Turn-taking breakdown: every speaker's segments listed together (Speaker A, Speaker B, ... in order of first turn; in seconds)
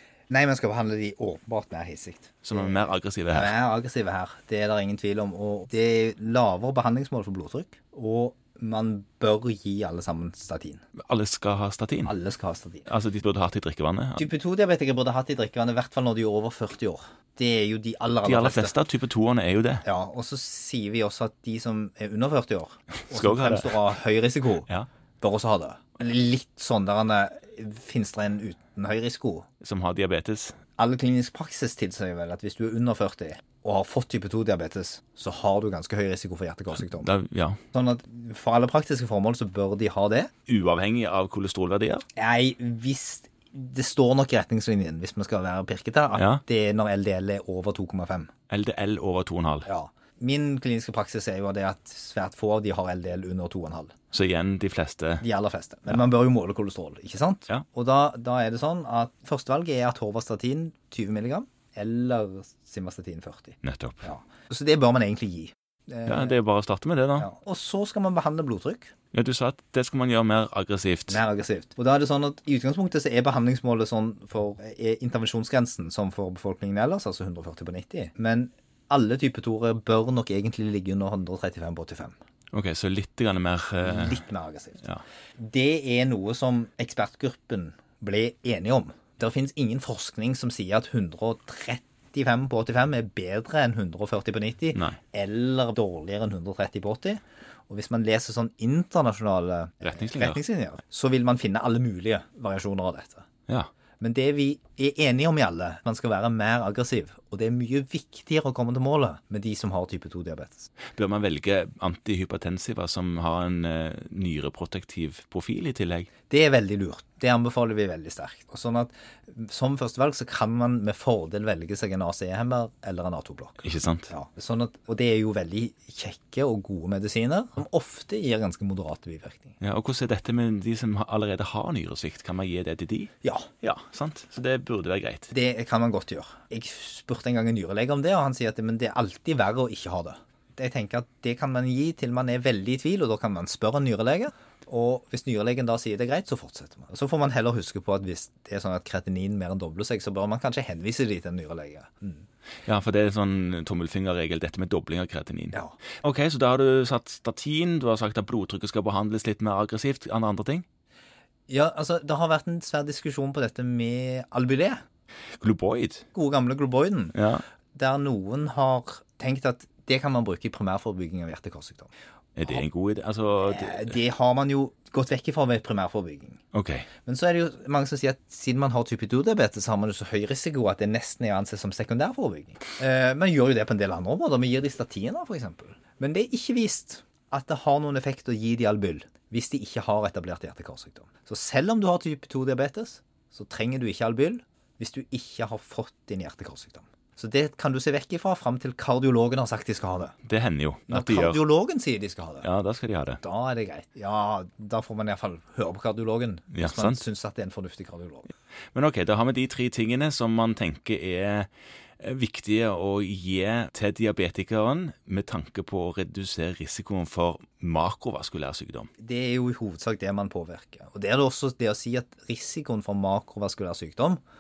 Speaker A: 0.3-10.8, 12.1-12.9, 14.2-18.8, 19.9-24.7, 25.2-29.5, 30.8-37.1, 37.7-40.3, 42.2-48.3, 49.7-53.9, 55.2-66.4, 67.2-68.9, 71.1-82.2, 83.8-84.8, 85.4-103.3, 104.0-110.7, 116.3-129.6, 133.2-133.5, 135.3-152.2, 161.5-164.8, 166.1-167.2, 167.7-171.9, 173.4-176.4, 177.1-200.2, 200.9-202.5, 203.2-208.3, 219.0-224.2
Speaker B: 2.4-3.5, 11.0-12.1, 12.9-14.3, 18.2-19.8, 23.0-23.8, 29.6-30.6, 36.8-37.6, 40.5-42.0, 46.1-46.4, 48.5-49.7, 54.1-55.2, 63.6-64.1, 66.1-67.3, 69.1-71.2, 82.5-84.2, 99.9-100.4, 110.9-116.1, 123.6-124.1, 129.6-135.3, 152.7-160.7, 165.4-166.1, 167.1-167.4, 172.4-174.0, 176.5-176.9, 200.2-201.4, 202.4-203.2, 206.5-207.0, 208.7-211.5, 212.0-218.9